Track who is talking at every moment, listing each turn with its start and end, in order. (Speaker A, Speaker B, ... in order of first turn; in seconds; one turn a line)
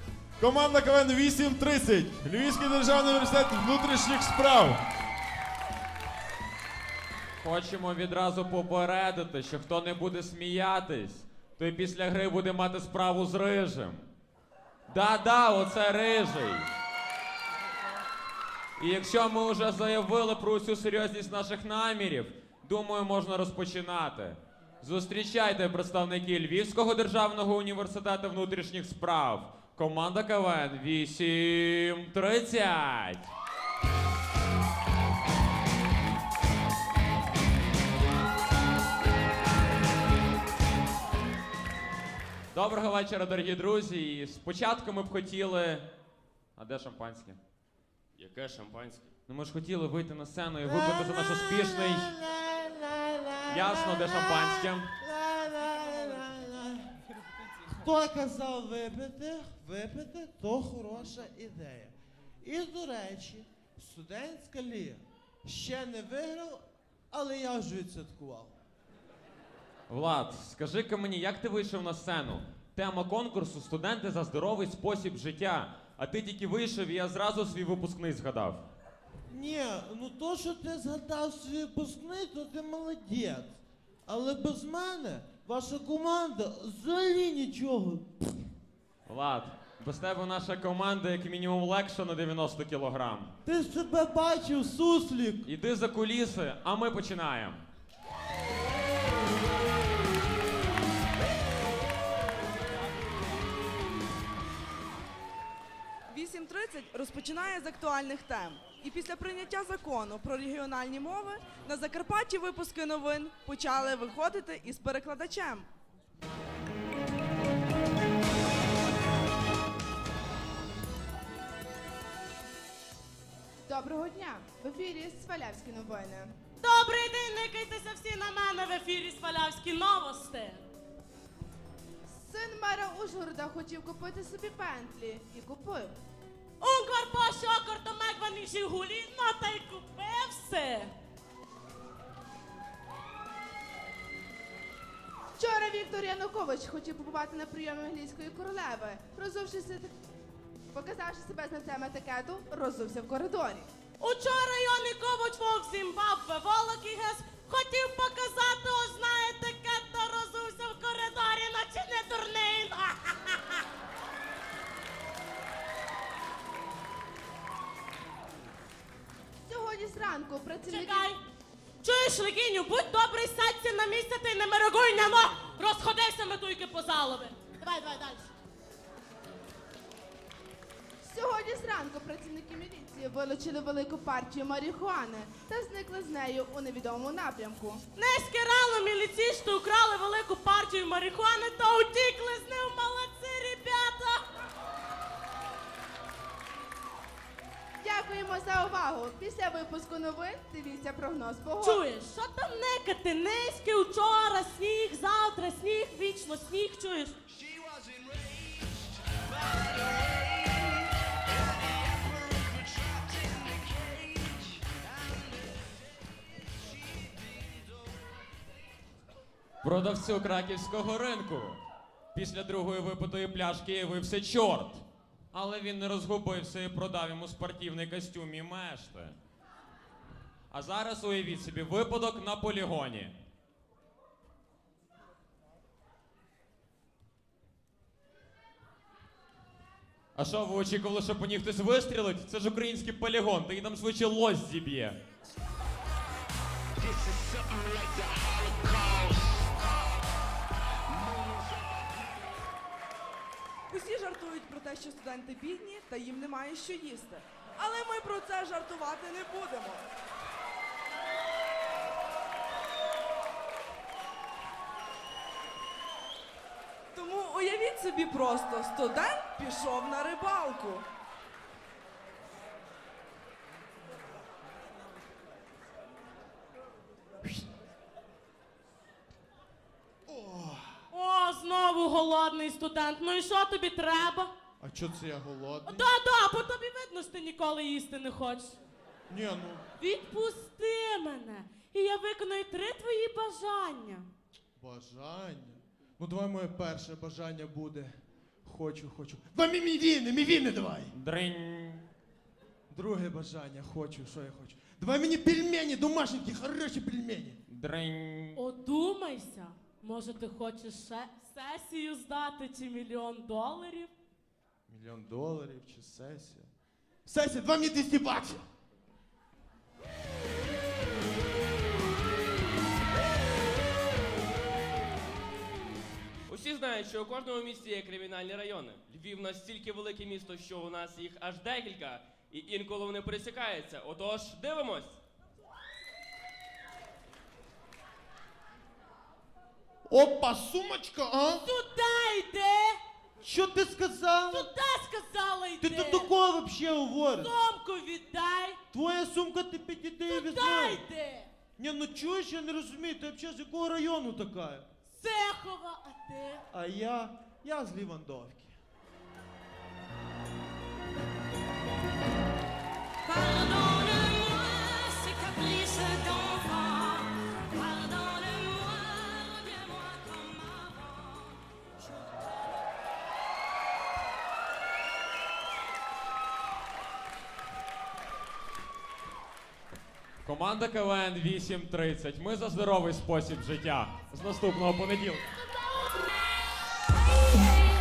Speaker A: 0.4-4.8
Speaker B: 7.4-14.1
Speaker B: 14.9-16.7
Speaker B: 18.8-33.3
Speaker B: 42.5-45.9
Speaker B: 46.6-47.4
Speaker C: 48.2-49.1
Speaker B: 49.3-52.1
Speaker D: 50.6-56.9
Speaker B: 53.5-54.9
Speaker D: 57.7-68.6
Speaker B: 69.9-78.6
Speaker D: 79.3-88.2
Speaker B: 89.1-93.3
Speaker D: 93.5-95.5
Speaker B: 95.5-97.6
Speaker E: 106.1-115.7
Speaker F: 123.7-126.3
Speaker G: 126.6-130.7
Speaker F: 132.1-135.9
Speaker G: 136.6-140.9
Speaker F: 145.4-149.9
Speaker F: 150.7-153.7
Speaker G: 154.0-163.6
Speaker F: 169.4-171.1
Speaker G: 170.7-171.2
Speaker G: 171.8-178.3
Speaker F: 181.0-187.8
Speaker G: 187.9-194.2
Speaker F: 197.8-201.8
Speaker G: 201.6-207.2
Speaker B: 219.6-221.6
Speaker B: 222.1-229.2
Speaker B: 230.5-233.1
Speaker B: 240.2-245.0
Speaker E: 253.7-259.9
Speaker E: 266.9-270.9
Speaker D: 280.1-280.8
Speaker G: 280.9-284.3
Speaker D: 284.6-285.9
Speaker G: 285.7-288.6
Speaker D: 289.1-289.7
Speaker G: 289.8-294.1
Speaker D: 294.6-300.9
Speaker B: 300.9-301.9
Speaker D: 302.7-307.4
Speaker B: 307.5-308.4
Speaker G: 308.4-313.9
Speaker D: 314.7-316.5
Speaker D: 317.1-318.5
Speaker C: 326.3-335.0
Speaker D: 339.9-341.5
Speaker G: 341.4-342.8
Speaker D: 343.2-344.5
Speaker G: 344.3-346.1
Speaker D: 345.6-347.3
Speaker G: 347.2-348.6
Speaker D: 348.7-350.8
Speaker G: 350.1-351.3
Speaker D: 351.6-354.7
Speaker G: 354.9-356.4
Speaker D: 356.5-358.6
Speaker G: 363.1-370.9
Speaker B: 380.2-385.2